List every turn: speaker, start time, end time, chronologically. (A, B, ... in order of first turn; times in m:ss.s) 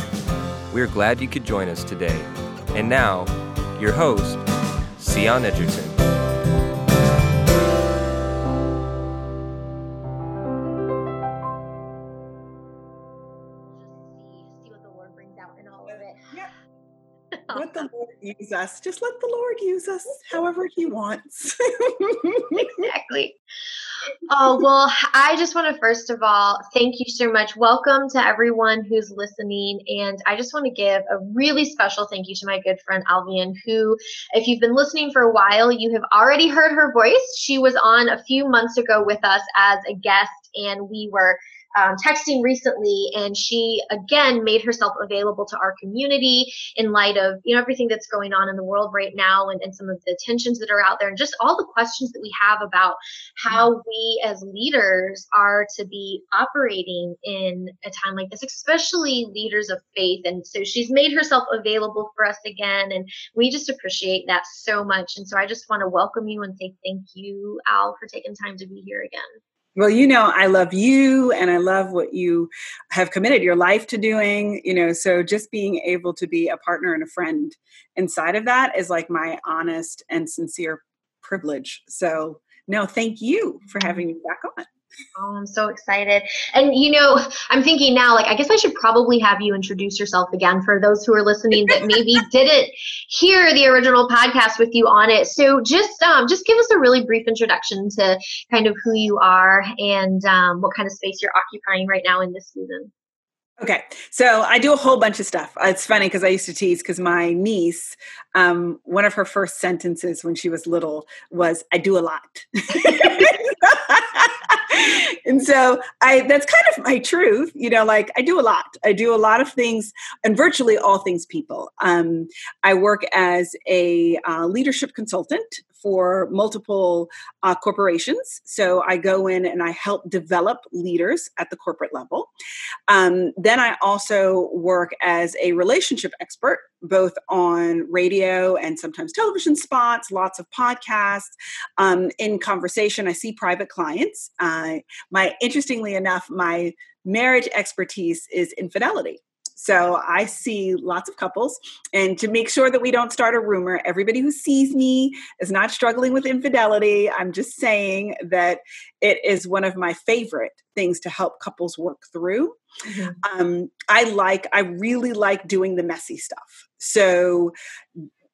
0:00.7-0:04.4 A
0:05.0-0:06.0 A
0:13.8-0:16.3 B
0:17.3-0:17.7 B
0:17.5-0:22.7 C
0:22.8-0:23.4 B
0:24.3-1:09.3 B
1:09.8-1:24.7 C
1:25.2-1:42.9 B
1:43.6-2:12.3 C
2:12.9-2:42.6 C
2:42.8-2:43.2 B
2:43.2-2:48.0 C